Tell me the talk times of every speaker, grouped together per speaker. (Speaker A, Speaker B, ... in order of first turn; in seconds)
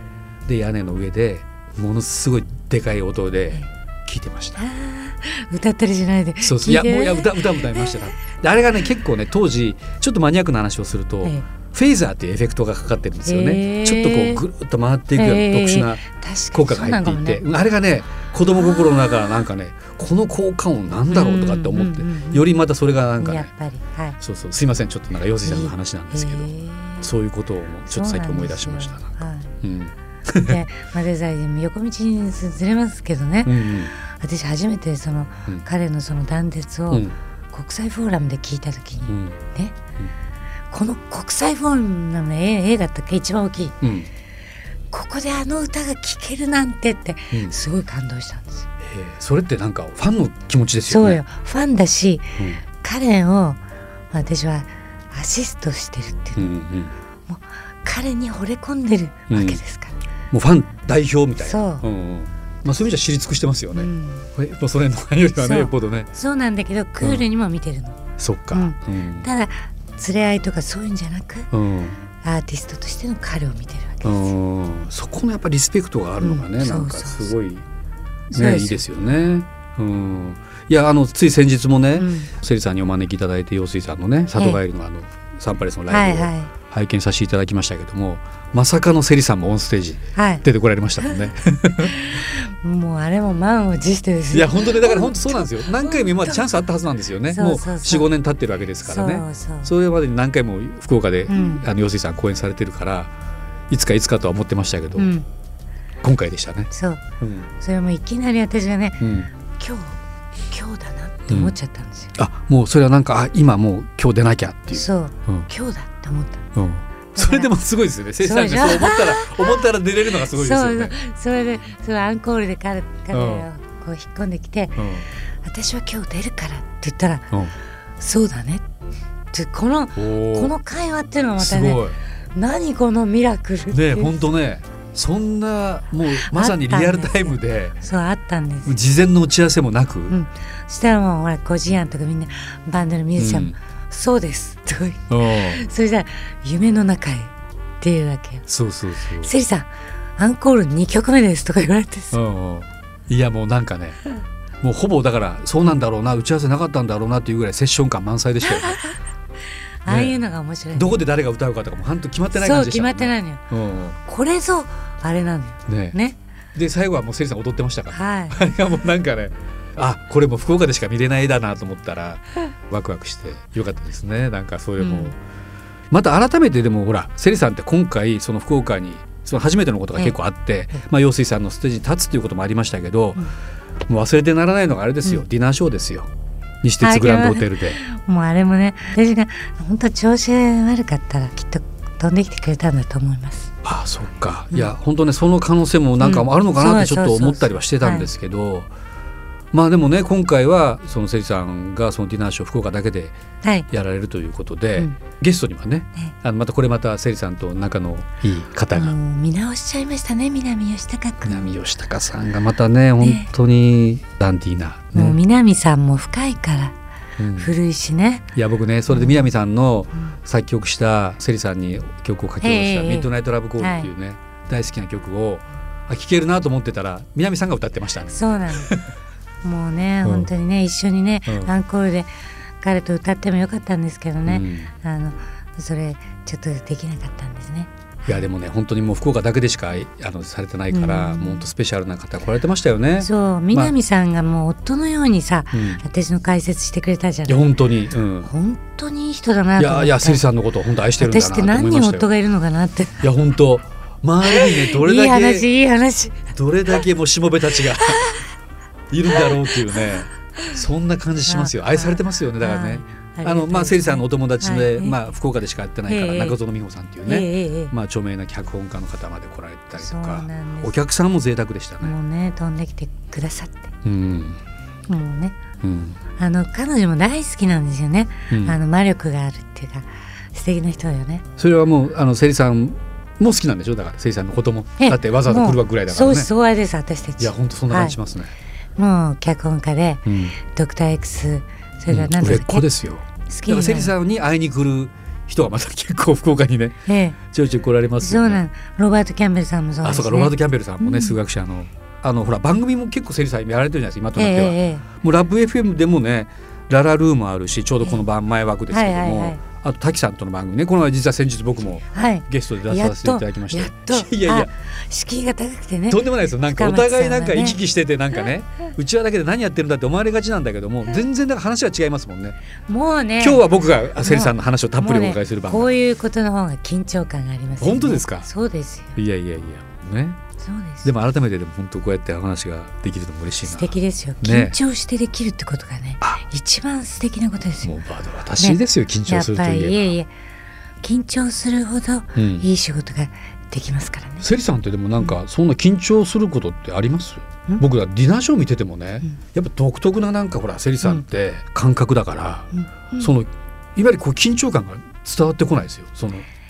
Speaker A: 0.5-4.6, 6.4-23.5, 24.2-30.6, 33.5-33.9, 39.1-39.4, 43.8-44.1, 48.8-51.2, 56.4-56.9, 59.3-59.6, 60.3-66.1, 68.2-69.3, 71.5-72.0, 74.0-77.7, 78.3-92.0, 94.3-103.1, 103.7-105.1, 106.0-106.7, 107.2-107.5, 109.0-109.3, 111.3-111.5, 112.2-115.5, 116.5-121.0, 123.1-123.5, 124.8-125.1, 130.0-130.6, 131.4-132.0, 133.7-137.8, 138.7-140.2, 143.2-143.6, 145.1-145.6, 148.5-149.3, 152.1-154.0, 154.6-158.8, 159.9-160.2, 160.7-164.0, 165.7-166.0, 166.6-175.2, 175.9-183.3, 183.9-186.1, 186.6-187.8, 193.6-198.7, 199.5-203.2, 203.7-208.9, 211.3-215.2, 217.2-217.6, 218.3-228.9, 230.1-230.3, 231.3-231.5, 234.3-234.7, 238.1-243.7, 245.5-245.8, 247.3-248.3, 249.6-252.1, 253.0-255.5, 256.3-258.2, 258.9-271.9, 273.8-274.4, 275.6-276.0, 278.3-278.6, 281.4-286.3, 287.2-288.3, 290.1-290.4, 291.9-298.4, 299.8-314.5, 315.9-322.4, 323.2-325.8, 327.6-328.3, 329.0-330.2, 330.8-334.6, 337.6-339.9, 342.2-342.5, 344.2-356.3
Speaker B: 4.6-8.0, 13.2-14.4, 15.2-17.4, 18.6-19.4, 21.1-22.5, 23.2-24.2, 25.4-27.1, 27.9-29.6, 30.4-39.8, 40.7-43.8, 44.9-48.7, 50.9-53.6, 54.1-56.5, 57.3-60.0, 61.4-61.9, 63.7-64.3, 65.4-68.0, 68.5-71.5, 72.2-74.3, 76.2-77.3, 78.3-78.8, 82.0-82.3, 85.9-86.5, 90.2-90.4, 91.0-96.5, 97.3-98.1, 98.8-99.7, 101.3-101.7, 105.0-105.3, 106.7-107.0, 107.5-110.0, 110.5-112.1, 114.7-116.5, 117.2-117.5, 118.2-119.6, 120.2-124.9, 125.4-127.3, 128.0-128.6, 129.3-134.2, 136.1-138.8, 140.1-148.5, 149.2-152.2, 158.5-159.0, 159.8-161.0, 162.3-163.4, 164.0-166.2, 167.9-168.4, 174.8-175.2, 186.8-193.5, 196.0-198.1, 203.4-203.7, 208.7-211.5, 213.0-213.3, 214.9-216.8, 217.4-218.3, 218.9-219.3, 222.4-223.9, 228.1-228.7, 229.4-232.1, 232.6-238.3, 240.7-241.5, 243.0-247.5, 248.2-250.2, 251.0-253.1, 254.2-256.3, 257.8-258.2, 259.1-259.9, 261.3-265.0, 265.9-266.4, 267.1-267.7, 269.8-270.8, 271.8-273.7, 274.9-275.4, 276.2-281.2, 284.8-288.0, 288.8-292.7, 293.3-293.9, 296.9-297.2, 298.0-301.1, 304.2-304.8, 308.7-309.4, 311.9-317.6, 322.7-329.0, 330.4-330.9, 333.4-337.7, 338.4-340.1, 340.8-344.3, 352.5-353.1